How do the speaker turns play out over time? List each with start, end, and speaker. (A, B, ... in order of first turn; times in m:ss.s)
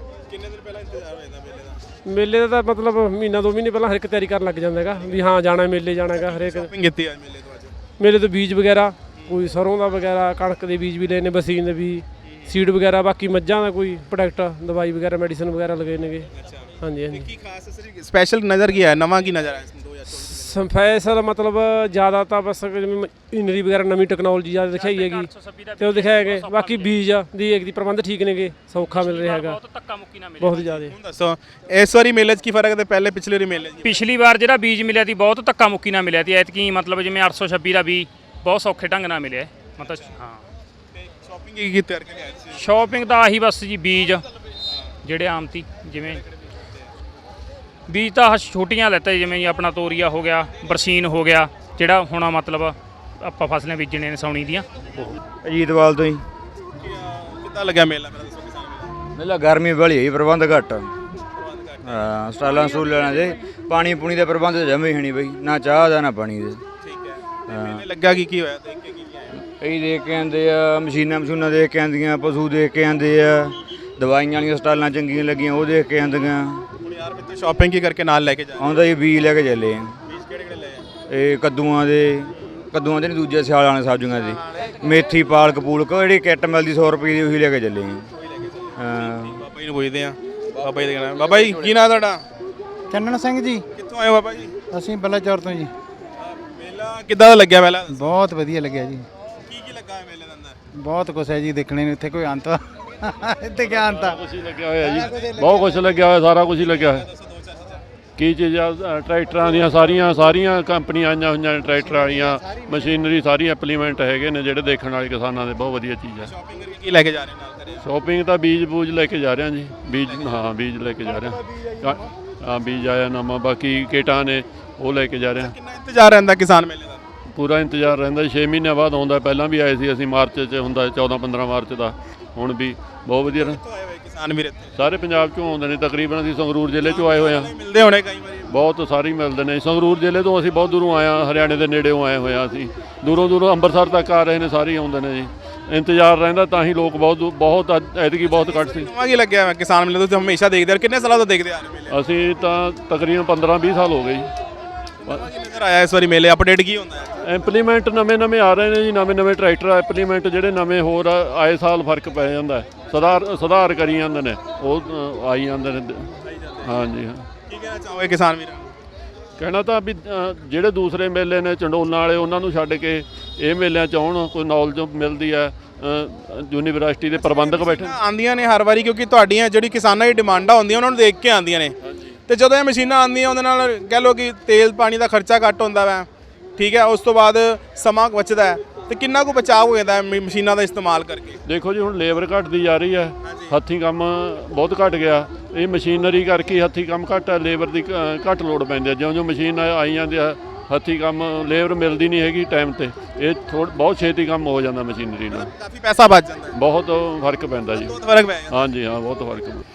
0:00.3-0:01.8 A
0:02.1-0:06.7 B
0:05.0-0:05.3 A
0:06.0-0:07.8 A
0:08.0-0:16.3 B
0:09.2-0:09.5 A
0:12.2-0:12.6 A
0:16.3-0:20.7 A
0:16.8-0:17.3 B
0:20.1-0:29.6 B
0:24.7-0:27.1 C
0:28.8-0:30.8 C
0:30.4-0:31.0 B
0:30.8-0:34.0 A
0:33.8-0:40.4 C
0:39.7-0:40.1 A
0:40.9-0:43.0 A
0:42.5-0:44.3 C
0:44.7-0:45.0 A
0:45.0-0:46.2 C
0:46.1-0:46.9 A
0:47.9-0:55.1 C
0:55.4-0:56.2 D
0:56.8-0:59.0 A
0:59.1-1:00.9 D
1:01.4-1:03.2 A
1:01.8-1:06.6 D
1:06.8-1:09.4 A
1:07.5-1:07.8 D
1:09.4-1:16.6 D
1:16.8-1:18.8 A
1:18.6-1:19.9 D
1:20.1-1:20.9 A
1:21.1-1:28.1 D
1:28.1-1:32.2 A
1:28.8-1:29.4 D
1:32.9-1:33.6 E
1:33.8-1:34.5 A
1:34.7-1:35.7 E
1:36.2-1:38.0 A
1:37.9-1:39.1 E
1:39.5-1:40.6 A
1:40.7-1:44.2 E
1:43.6-1:47.1 F
1:44.8-1:45.5 E
1:45.2-1:45.9 A
1:46.5-1:47.8 A
1:48.2-1:56.3 F
1:51.9-1:52.9 E
1:56.2-1:57.8 A
1:57.8-2:05.5 F
1:59.9-2:00.4 A
2:05.3-2:07.1 A
2:07.3-2:13.6 F
2:13.3-2:14.8 A
2:14.7-2:17.5 F
2:16.7-2:18.6 A
2:18.5-2:28.9 F
2:28.2-2:32.0 A
2:31.9-2:34.3 F
2:35.0-2:37.3 A
2:37.2-2:47.3 F
2:46.2-2:46.9 A
2:47.5-2:48.8 A
2:49.4-2:58.0 F
2:57.1-3:01.8 A
3:01.8-3:02.2 F
3:02.3-3:11.4 A
3:11.5-3:25.5 F
3:13.2-3:13.6 A
3:25.3-3:26.6 A
3:26.5-3:29.6 F
3:27.7-3:28.6 A